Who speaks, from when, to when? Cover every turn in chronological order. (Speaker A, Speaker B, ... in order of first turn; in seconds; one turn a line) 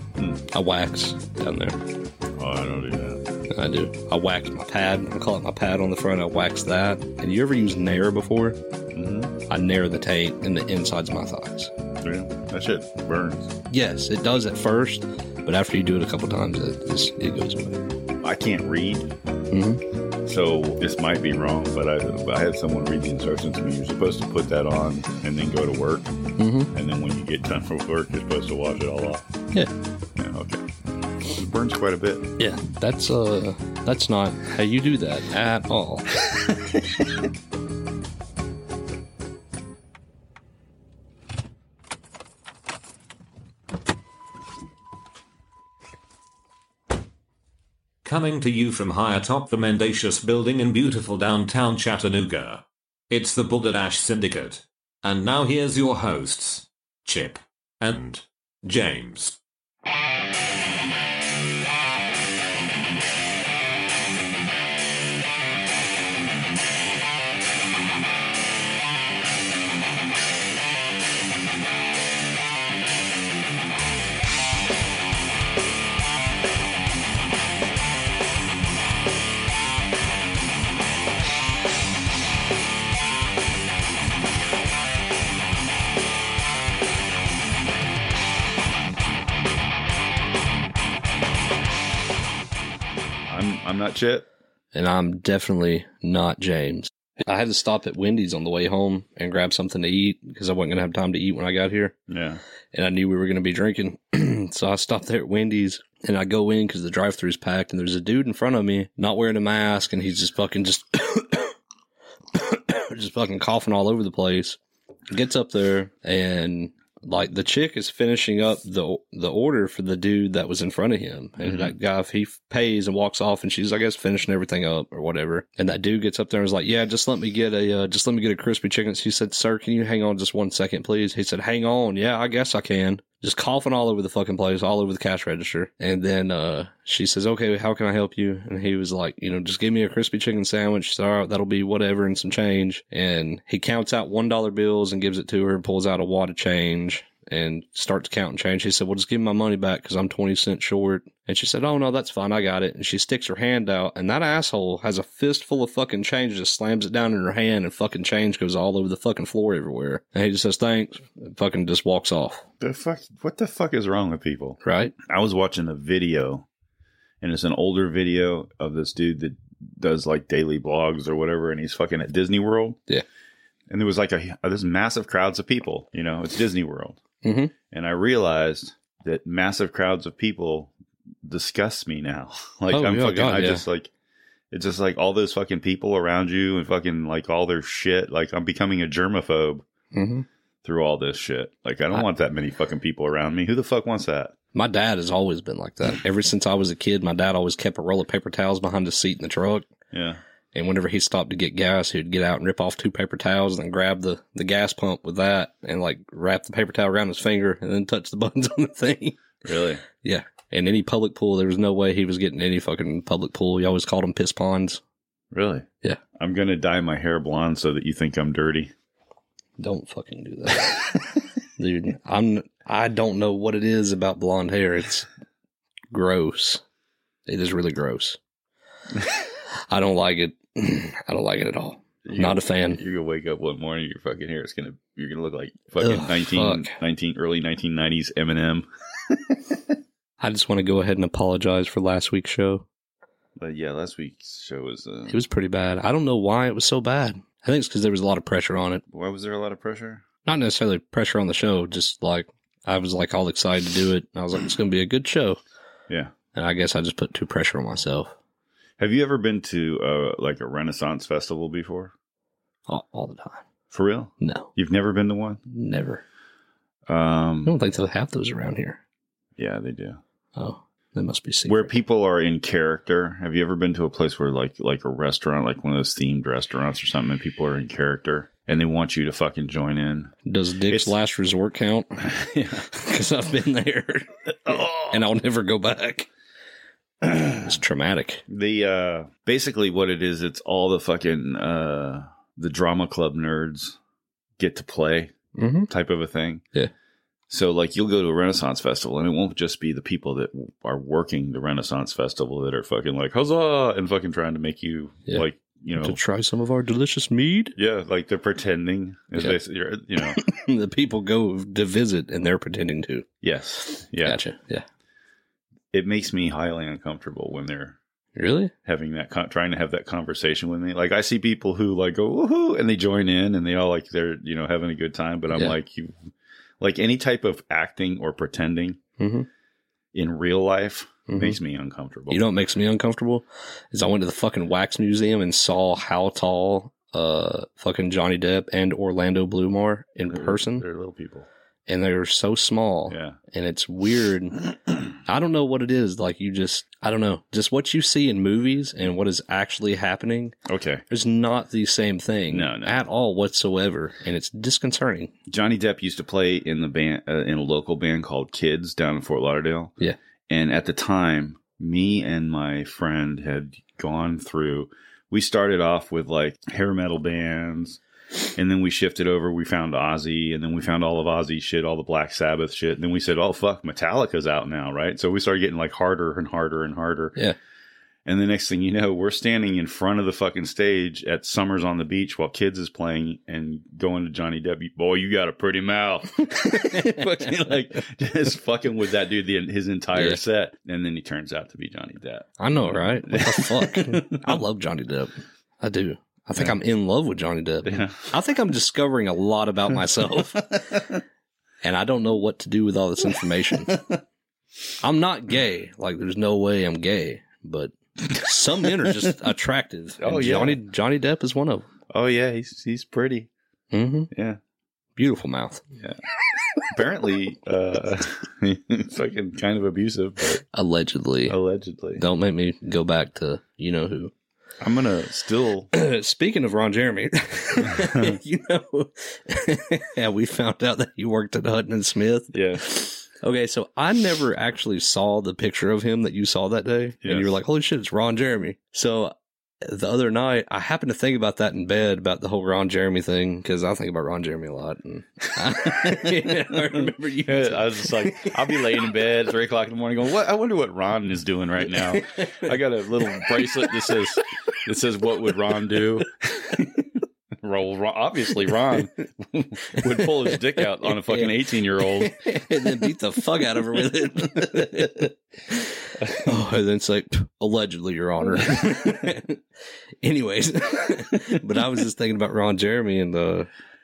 Speaker A: 0.5-1.8
Speaker B: 2.4-3.2
Speaker A: 3.5-8.6
Speaker B: 8.9-9.4
Speaker A: 9.5-11.7
Speaker B: 12.0-13.5
Speaker A: 13.7-17.8
Speaker B: 18.2-19.1
Speaker A: 19.5-19.8
Speaker B: 20.2-26.1
Speaker A: 26.4-26.7
Speaker B: 26.7-29.2
Speaker B: 30.2-30.6
Speaker B: 31.2-32.3
Speaker A: 32.4-36.1
Speaker C: 48.0-59.4
Speaker B: 93.3-94.3
Speaker A: 94.7-102.0
Speaker B: 102.1-102.4
Speaker A: 102.7-111.6
Speaker A: 112.3-114.6
Speaker A: 115.1-162.5
Speaker B: 121.4-121.8
Speaker B: 162.6-166.5
Speaker A: 164.6-164.9
Speaker B: 167.2-172.8
Speaker B: 173.7-177.0
Speaker A: 177.2-177.5
Speaker B: 177.7-180.7
Speaker B: 181.2-183.9
Speaker A: 182.7-183.6
Speaker B: 184.5-189.7
Speaker A: 189.9-190.3
Speaker B: 190.6-194.3
Speaker A: 194.6-199.7
Speaker B: 199.9-200.2
Speaker A: 200.5-209.3
Speaker B: 209.4-209.8
Speaker A: 210.0-214.8
Speaker B: 215.3-218.7
Speaker A: 219.6-220.9
Speaker A: 221.6-225.1
Speaker A: 225.9-226.6
Speaker A: 227.3-228.2
Speaker A: 229.7-232.8
Speaker B: 232.0-239.6
Speaker A: 235.8-236.7
Speaker A: 240.2-242.7
Speaker B: 243.4-245.2
Speaker A: 245.1-248.8
Speaker B: 248.9-250.1
Speaker A: 250.3-255.4
Speaker A: 256.3-258.1
Speaker B: 258.8-261.9
Speaker A: 262.7-263.4
Speaker B: 263.7-265.4
Speaker A: 264.2-264.5
Speaker A: 265.5-266.0
Speaker B: 266.9-267.6
Speaker A: 267.4-268.8
Speaker B: 269.4-270.0
Speaker A: 270.4-271.7
Speaker B: 271.5-280.1
Speaker A: 280.3-282.1
Speaker B: 280.7-280.9
Speaker B: 282.0-282.7
Speaker A: 282.7-284.2
Speaker B: 284.4-285.0
Speaker A: 284.7-286.1
Speaker B: 287.0-287.6
Speaker A: 287.4-288.2
Speaker B: 288.3-293.8
Speaker B: 294.4-295.1
Speaker A: 295.4-295.7
Speaker B: 295.7-296.4
Speaker B: 297.3-306.0
Speaker A: 305.8-307.6
Speaker B: 307.6-310.2
Speaker A: 310.0-313.1
Speaker B: 313.2-314.2
Speaker A: 314.0-314.6
Speaker B: 315.7-317.8
Speaker A: 318.2-318.5
Speaker B: 318.6-326.0
Speaker B: 326.6-328.8
Speaker A: 329.0-329.3
Speaker B: 329.9-332.2
Speaker A: 331.1-331.4
Speaker A: 332.1-340.7
Speaker B: 340.1-341.3
Speaker A: 341.7-350.4
Speaker B: 342.9-343.2
Speaker B: 350.5-350.8
Speaker A: 350.9-355.1
Speaker B: 352.3-352.8
Speaker B: 355.3-359.7
Speaker B: 360.3-367.8
Speaker B: 368.4-377.2
Speaker B: 378.1-394.4
Speaker A: 386.6-387.0
Speaker A: 389.9-390.2
Speaker A: 392.4-400.8
Speaker B: 397.6-398.1
Speaker A: 401.6-403.8
Speaker B: 403.7-404.0
Speaker A: 404.8-411.7
Speaker B: 408.6-409.1
Speaker B: 410.0-410.6
Speaker B: 411.9-413.3
Speaker A: 413.7-414.1
Speaker B: 414.1-414.4
Speaker A: 415.0-415.6
Speaker B: 416.6-420.4
Speaker A: 420.5-421.4
Speaker B: 421.3-422.0
Speaker A: 422.0-424.1
Speaker B: 424.6-425.7
Speaker A: 425.7-448.9
Speaker B: 427.7-428.1
Speaker B: 432.3-432.6
Speaker B: 437.0-437.3
Speaker B: 445.5-462.2
Speaker A: 451.9-452.5
Speaker A: 453.1-453.9
Speaker A: 460.0-469.4
Speaker A: 470.0-473.5